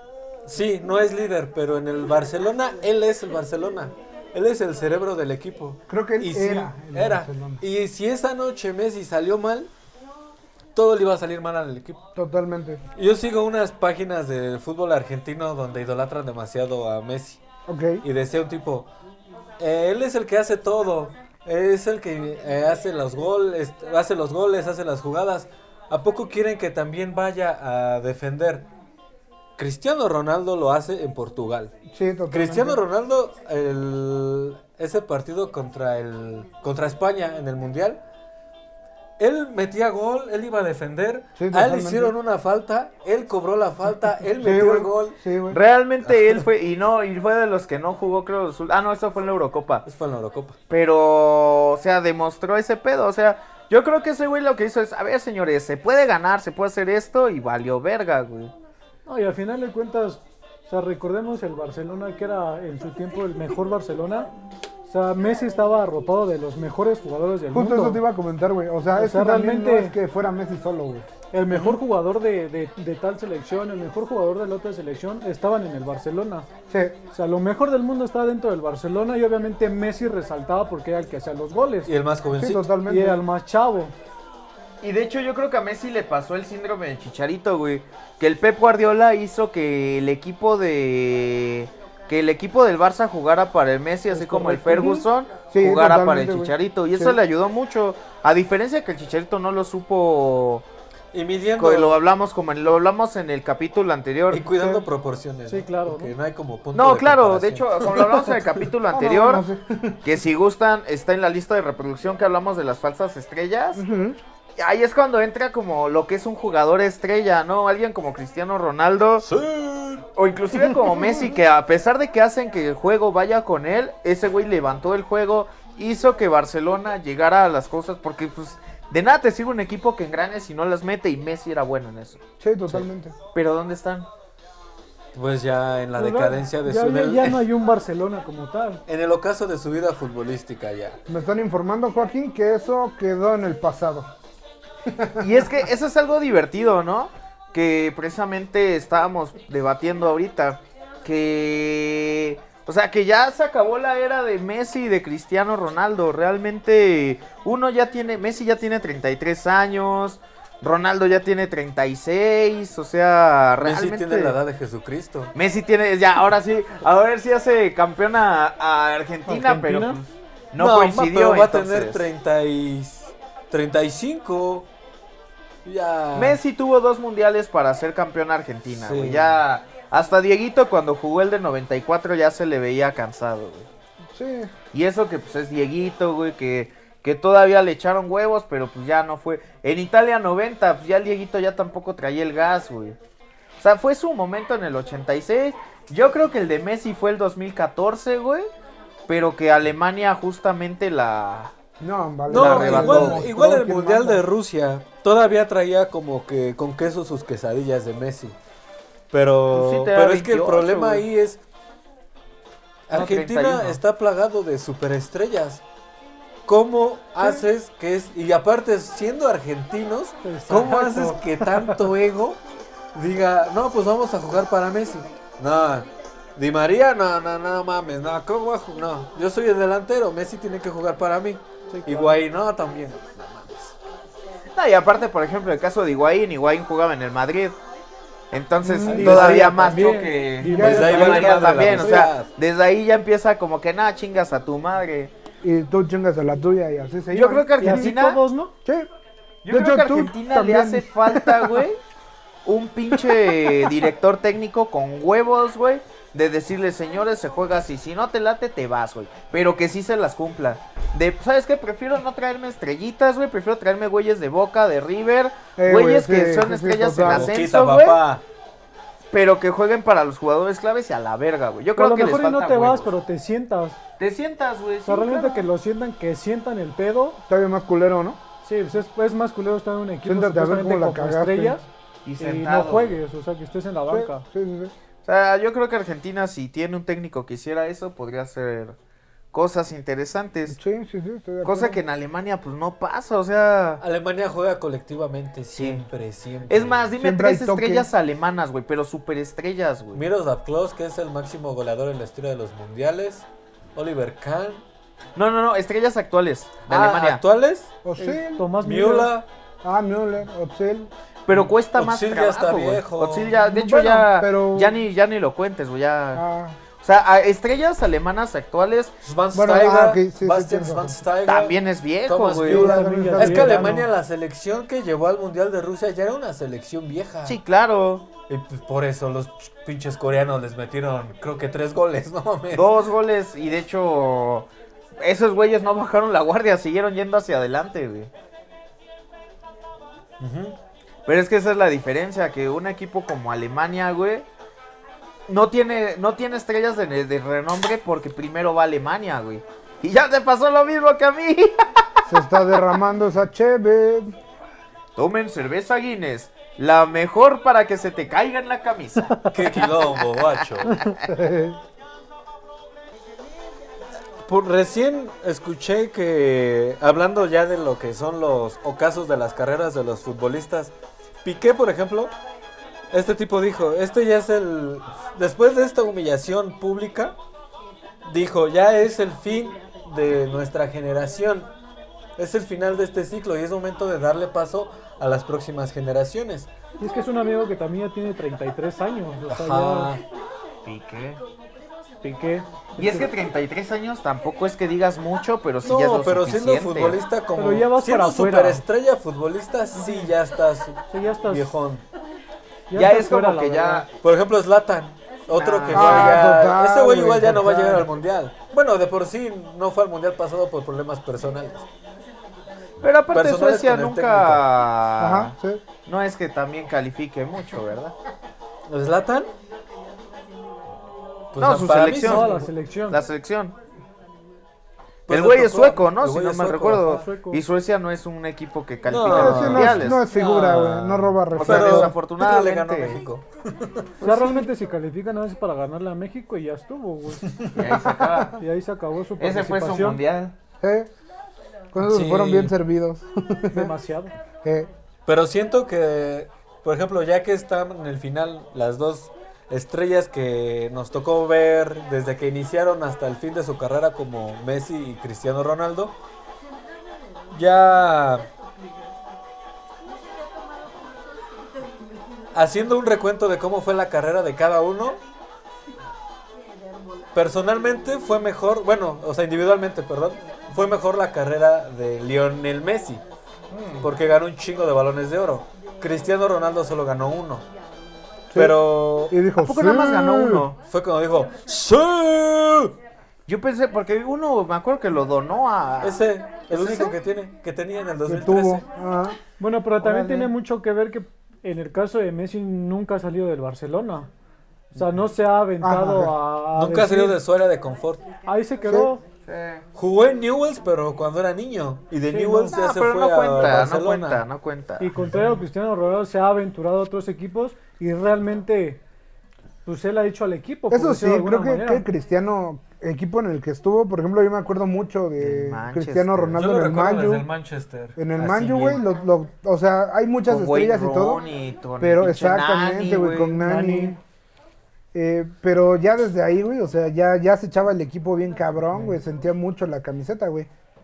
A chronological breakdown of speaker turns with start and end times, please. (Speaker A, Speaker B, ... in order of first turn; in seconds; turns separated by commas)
Speaker A: 0.5-9.7, Speaker B: 5.9-7.6, Speaker A: 10.8-12.0, Speaker B: 12.2-12.8, Speaker A: 12.9-17.4, Speaker B: 17.7-18.0, Speaker A: 18.0-18.9, Speaker A: 19.6-28.7, Speaker A: 29.6-31.7, Speaker B: 31.9-32.8, Speaker A: 32.3-38.0, Speaker A: 39.2-45.2, Speaker B: 41.4-42.1, Speaker B: 44.4-45.6, Speaker C: 45.5-49.8, Speaker A: 46.1-46.4, Speaker A: 49.9-50.6, Speaker C: 50.7-58.5, Speaker D: 59.1-64.3, Speaker D: 64.9-68.0, Speaker B: 67.5-71.8, Speaker D: 68.9-70.0, Speaker D: 71.3-76.5, Speaker B: 76.7-77.0, Speaker D: 77.1-81.9, Speaker A: 81.9-82.7, Speaker B: 82.4-83.2, Speaker D: 82.9-84.0, Speaker C: 84.8-100.7, Speaker B: 94.1-97.2, Speaker A: 101.1-102.0, Speaker C: 101.6-104.5, Speaker A: 104.3-108.6, Speaker B: 104.5-104.8, Speaker D: 105.5-106.1, Speaker C: 106.7-109.4, Speaker B: 108.9-110.0, Speaker C: 110.0-113.8, Speaker B: 113.8-114.2, Speaker C: 114.6-119.3, Speaker A: 119.2-120.1, Speaker C: 120.2-132.2, Speaker B: 120.5-121.3, Speaker B: 132.4-133.2, Speaker C: 133.3-134.1, Speaker A: 135.1-137.4, Speaker D: 136.0-138.8, Speaker A: 138.9-141.0, Speaker B: 141.1-144.1, Speaker B: 144.8-145.3, Speaker C: 145.2-164.4, Speaker A: 163.6-165.3, Speaker C: 165.3-172.0, Speaker D: 169.3-170.0, Speaker A: 170.6-174.7, Speaker A: 175.7-176.4, Speaker C: 176.2-183.7, Speaker A: 178.7-179.4, Speaker B: 184.1-184.5, Speaker C: 184.7-193.0, Speaker C: 193.6-198.5, Speaker C: 199.1-201.5, Speaker B: 201.8-204.2, Speaker A: 202.3-208.4, Speaker C: 202.3-203.3, Speaker A: 209.1-211.4, Speaker C: 209.5-211.1, Speaker A: 212.9-215.6, Speaker C: 212.9-213.8, Speaker A: 216.5-222.4, Speaker D: 220.2-221.8, Speaker A: 222.9-233.8, Speaker D: 231.7-232.2, Speaker C: 234.5-237.6, Speaker C: 238.3-245.1, Speaker B: 238.6-239.8, Speaker D: 238.7-242.1, Speaker A: 239.0-239.4, Speaker B: 240.4-241.4, Speaker A: 240.5-242.3, Speaker B: 245.4-247.9, Speaker C: 247.1-248.2, Speaker D: 247.6-248.5, Speaker C: 249.4-251.8, Speaker B: 249.5-251.7, Speaker C: 252.4-268.0, Speaker B: 253.1-253.7, Speaker B: 265.6-267.3, Speaker A: 267.0-268.2, Speaker C: 269.1-272.9, Speaker D: 271.8-273.8, Speaker C: 274.0-275.5, Speaker D: 274.9-277.2, Speaker B: 277.3-278.2, Speaker D: 278.4-281.6, Speaker B: 280.1-281.6, Speaker C: 282.1-283.0, Speaker D: 282.2-284.2, Speaker B: 283.9-284.7, Speaker C: 285.1-288.8, Speaker C: 289.3-290.6, Speaker B: 290.5-291.8, Speaker C: 291.4-293.8, Speaker A: 293.8-296.9, Speaker C: 295.6-295.8, Speaker C: 296.5-300.0, Speaker B: 297.0-297.9, Speaker A: 299.9-304.6, Speaker C: 305.1-307.2, Speaker A: 306.7-307.7, Speaker B: 307.8-308.5, Speaker D: 308.0-309.1, Speaker A: 308.6-309.3, Speaker B: 309.6-310.9, Speaker C: 311.3-316.2, Speaker A: 311.3-313.4, Speaker B: 313.4-314.8, Speaker B: 316.1-316.6, Speaker C: 316.8-318.9, Speaker A: 319.0-327.4, Speaker B: 319.3-320.9, Speaker C: 321.3-322.7, Speaker B: 322.5-323.9, Speaker D: 322.5-323.9, Speaker C: 327.3-328.1, Speaker A: 328.3-332.8, Speaker C: 332.5-334.5, Speaker C: 335.0-338.1, Speaker A: 340.2-340.6, Speaker C: 341.1-344.3, Speaker C: 345.3-351.9, Speaker B: 352.1-354.1, Speaker C: 355.0-361.0, Speaker A: 359.3-360.8, Speaker B: 361.0-361.6, Speaker A: 364.2-370.7, Speaker A: 371.2-372.2, Speaker A: 372.9-377.2, Speaker A: 378.1-381.5, Speaker A: 382.2-386.5, Speaker D: 386.8-390.0, Speaker A: 389.3-390.0, Speaker C: 390.6-391.2, Speaker D: 392.0-393.1, Speaker C: 392.8-397.0, Speaker A: 395.6-401.9, Speaker D: 397.4-398.6, Speaker C: 399.8-400.1, Speaker D: 400.9-401.5, Speaker D: 402.7-403.9, Speaker C: 402.7-403.9, Speaker A: 404.0-411.7, Speaker C: 405.3-406.2, Speaker B: 405.7-407.9, Speaker C: 412.8-415.3, Speaker A: 413.1-414.4, Speaker B: 415.0-415.6, Speaker C: 415.9-417.9, Speaker A: 418.7-419.3, Speaker A: 421.3-422.5, Speaker C: 421.4-423.6, Speaker D: 422.0-423.0, Speaker A: 425.1-427.0, Speaker C: 425.1-430.0, Speaker D: 426.8-427.4, Speaker A: 428.9-433.9, Speaker B: 429.0-431.9, Speaker C: 431.3-433.0, Speaker D: 434.0-437.5, Speaker C: 434.0-434.4, Speaker C: 437.5-438.4, Speaker B: 437.7-438.3, Speaker D: 438.4-440.0, Speaker C: 439.2-440.4, Speaker B: 440.6-440.9, Speaker B: 441.7-443.7, Speaker A: 441.8-442.5, Speaker D: 443.5-444.1, Speaker B: 444.4-444.7, Speaker A: 445.1-456.0, Speaker A: 457.3-458.3, Speaker A: 462.3-465.0, Speaker A: 467.1-473.0, Speaker C: 473.5-473.9, Speaker A: 473.8-477.5, Speaker B: 478.3-478.6, Speaker A: 478.3-479.2, Speaker B: 479.1-480.5, Speaker C: 479.4-480.6, Speaker A: 480.6-482.8, Speaker C: 483.3-486.0, Speaker A: 485.8-488.6, Speaker D: 486.5-486.9, Speaker C: 486.6-486.9, Speaker B: 488.1-489.2, Speaker D: 489.4-494.1, Speaker B: 489.8-490.3, Speaker D: 494.7-497.2, Speaker B: 495.6-496.1, Speaker A: 496.5-498.1, Speaker D: 498.3-499.0, Speaker C: 499.3-499.6, Speaker A: 499.8-504.2, Speaker D: 502.1-502.6, Speaker C: 502.5-504.9, Speaker D: 504.8-508.8, Speaker D: 509.6-511.9, Speaker B: 510.7-517.3, Speaker C: 515.2-516.4, Speaker A: 516.4-518.8, Speaker B: 518.0-521.2, Speaker C: 520.3-524.0, Speaker B: 521.8-524.0, Speaker B: 524.9-530.5